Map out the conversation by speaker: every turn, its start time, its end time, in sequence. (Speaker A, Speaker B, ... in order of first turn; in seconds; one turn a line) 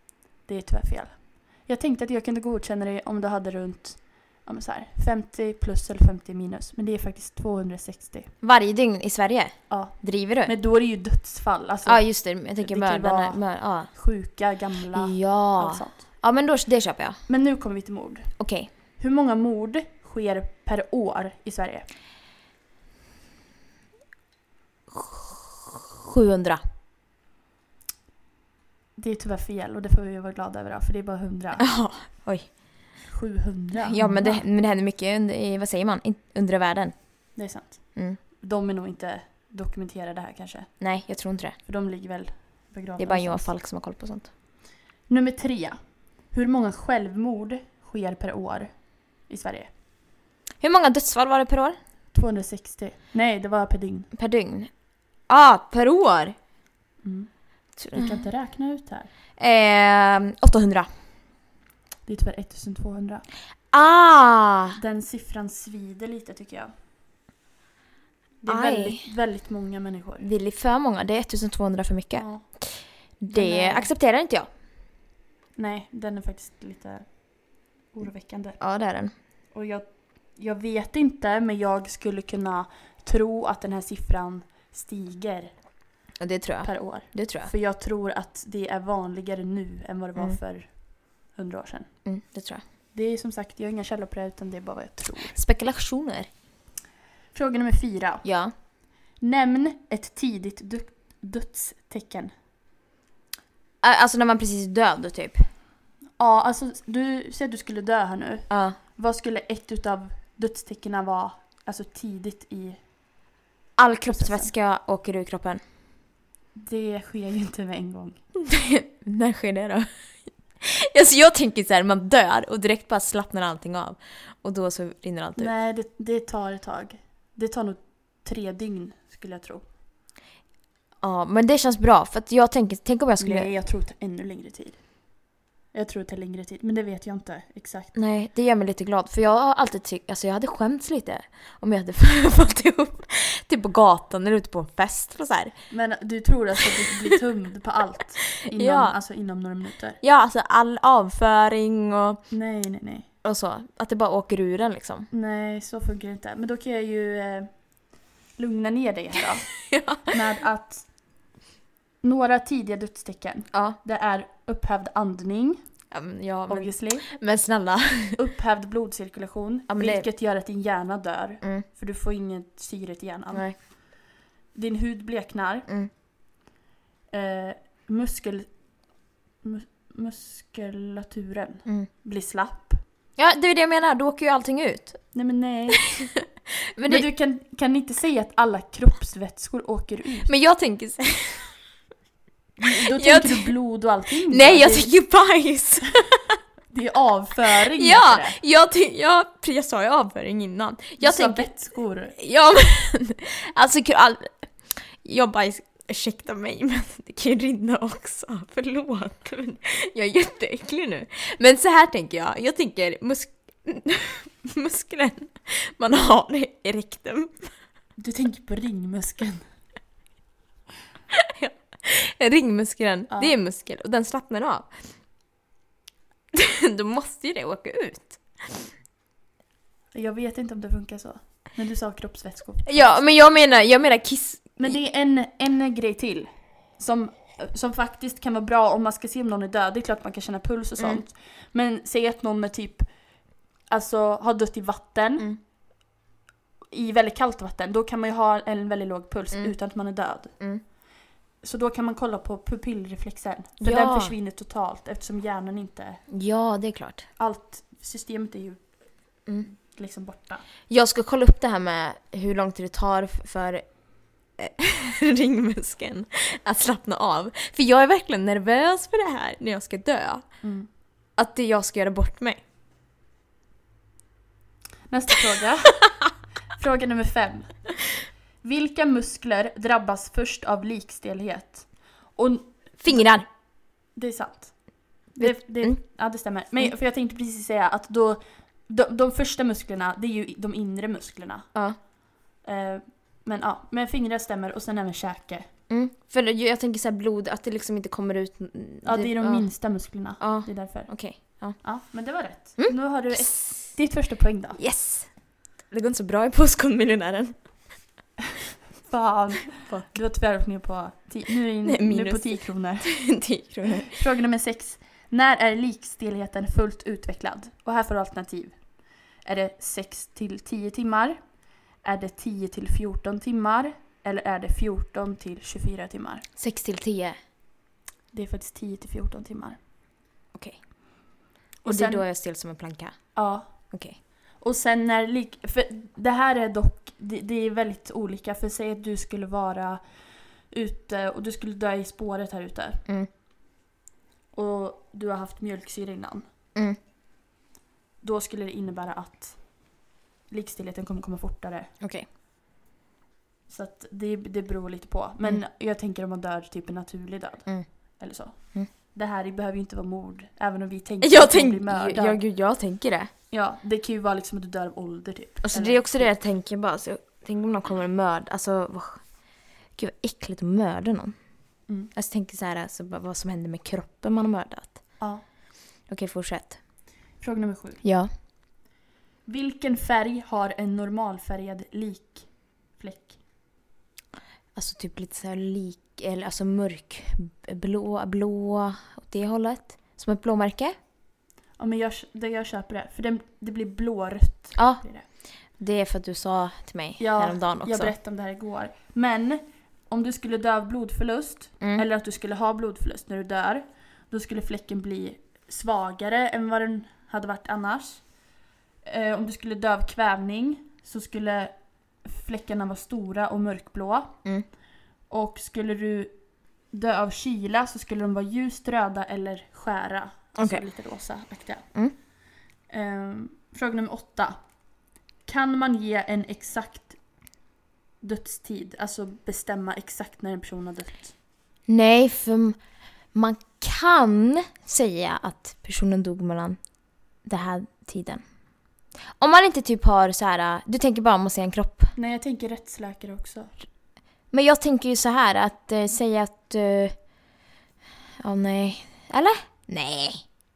Speaker A: 0.5-8.3
Speaker B: 8.4-10.5
Speaker A: 9.7-16.1
Speaker B: 11.9-13.9
Speaker B: 14.9-17.2
Speaker A: 17.3-18.3
Speaker B: 18.4-18.7
Speaker A: 18.9-21.9
Speaker B: 24.9-26.6
Speaker A: 29.0-31.6
Speaker B: 31.6-32.6
Speaker A: 33.1-34.5
Speaker B: 33.8-37.0
Speaker A: 37.4-40.7
Speaker B: 38.0-38.2
Speaker B: 40.8-41.6
Speaker A: 41.6-43.5
Speaker B: 43.0-44.3
Speaker A: 45.1-45.8
Speaker A: 46.3-49.7
Speaker B: 50.6-51.8
Speaker A: 52.1-54.1
Speaker B: 54.1-54.7
Speaker B: 55.3-56.4
Speaker A: 57.0-57.3
Speaker B: 57.8-58.3
Speaker A: 57.9-59.1
Speaker B: 59.4-60.9
Speaker A: 62.1-63.2
Speaker B: 63.7-64.8
Speaker A: 64.8-66.7
Speaker A: 68.4-70.3
Speaker B: 68.5-69.0
Speaker B: 70.2-74.5
Speaker A: 72.2-72.5
Speaker A: 73.3-73.9
Speaker A: 75.6-77.2
Speaker A: 77.9-78.6
Speaker B: 78.6-79.1
Speaker A: 79.5-85.6
Speaker B: 86.2-87.5
Speaker A: 86.6-91.9
Speaker B: 92.0-92.6
Speaker A: 92.9-95.4
Speaker B: 95.3-96.3
Speaker A: 97.3-98.2
Speaker B: 98.2-98.5
Speaker A: 99.2-102.3
Speaker B: 103.8-105.5
Speaker A: 106.2-112.8
Speaker B: 108.5-108.8
Speaker B: 113.8-115.6
Speaker A: 114.1-114.5
Speaker A: 116.6-118.2
Speaker B: 118.4-119.9
Speaker B: 120.6-125.5
Speaker A: 125.4-129.7
Speaker B: 131.0-133.5
Speaker A: 133.2-134.9
Speaker A: 135.7-137.9
Speaker B: 137.9-145.5
Speaker A: 145.7-150.0
Speaker B: 148.5-149.0
Speaker B: 150.0-152.2
Speaker A: 152.3-153.1
Speaker B: 153.2-155.1
Speaker A: 155.1-157.5
Speaker A: 158.4-159.5
Speaker B: 159.7-160.1
Speaker A: 160.1-160.8
Speaker A: 162.0-165.6
Speaker B: 165.9-168.2
Speaker A: 166.5-167.1
Speaker A: 168.2-173.7
Speaker B: 169.7-170.1
Speaker B: 173.3-173.6
Speaker A: 174.5-175.7
Speaker A: 177.1-178.5
Speaker A: 179.4-182.8
Speaker B: 183.2-185.0
Speaker A: 185.1-185.8
Speaker B: 186.0-187.1
Speaker A: 186.9-190.3
Speaker B: 190.3-191.6
Speaker A: 192.6-194.9
Speaker B: 192.9-193.5
Speaker B: 194.3-196.4
Speaker A: 196.7-198.4
Speaker B: 197.8-201.5
Speaker A: 201.0-202.2
Speaker B: 202.2-217.5
Speaker A: 218.0-219.4
Speaker B: 221.1-224.7
Speaker A: 223.1-223.3
Speaker B: 226.3-228.7
Speaker A: 229.9-233.0
Speaker B: 232.7-234.8
Speaker A: 234.6-242.9
Speaker A: 243.7-245.3
Speaker A: 246.7-250.4
Speaker A: 251.4-256.0
Speaker B: 253.6-254.1
Speaker B: 256.1-257.1
Speaker A: 257.2-258.6
Speaker A: 259.4-260.4
Speaker B: 260.7-263.6
Speaker B: 264.4-270.3
Speaker A: 270.4-270.7
Speaker B: 271.2-272.4
Speaker A: 274.9-275.9
Speaker A: 276.6-277.7
Speaker A: 278.4-283.1
Speaker B: 282.8-283.3
Speaker A: 283.9-291.5
Speaker B: 285.2-285.8
Speaker A: 292.4-295.5
Speaker B: 295.7-299.5
Speaker A: 298.9-304.6
Speaker B: 300.2-301.6
Speaker B: 302.6-303.7
Speaker B: 304.6-305.1
Speaker B: 305.7-307.4
Speaker A: 308.8-313.0
Speaker B: 311.6-314.0
Speaker A: 313.8-318.6
Speaker A: 319.2-321.2
Speaker A: 321.8-326.3
Speaker B: 326.4-327.2
Speaker A: 328.1-329.6
Speaker B: 330.3-330.6
Speaker A: 331.6-332.1
Speaker B: 331.7-333.1
Speaker A: 333.1-333.6
Speaker B: 333.7-334.0
Speaker A: 334.4-339.9
Speaker A: 340.5-342.8
Speaker A: 344.3-346.3
Speaker A: 348.0-349.6
Speaker A: 350.3-351.7
Speaker B: 351.8-352.1
Speaker A: 353.5-362.2
Speaker B: 361.0-363.1
Speaker A: 363.3-366.1
Speaker B: 365.4-369.0
Speaker B: 369.8-371.1
Speaker B: 371.9-374.8
Speaker B: 375.9-376.6
Speaker A: 377.2-377.8
Speaker B: 377.8-378.1
Speaker A: 379.3-383.2
Speaker B: 384.6-390.8
Speaker A: 391.6-395.1
Speaker B: 394.6-394.8
Speaker B: 395.6-397.9
Speaker A: 397.0-408.0
Speaker A: 408.9-411.5
Speaker A: 412.1-414.2
Speaker A: 415.1-416.1
Speaker A: 416.7-421.7
Speaker B: 420.4-420.6
Speaker A: 422.7-424.4
Speaker A: 425.3-427.0
Speaker A: 428.0-431.1
Speaker B: 431.7-432.6
Speaker B: 433.1-436.6
Speaker B: 437.2-438.2
Speaker B: 439.2-441.9
Speaker A: 442.0-443.5
Speaker B: 444.3-446.9
Speaker B: 448.2-450.2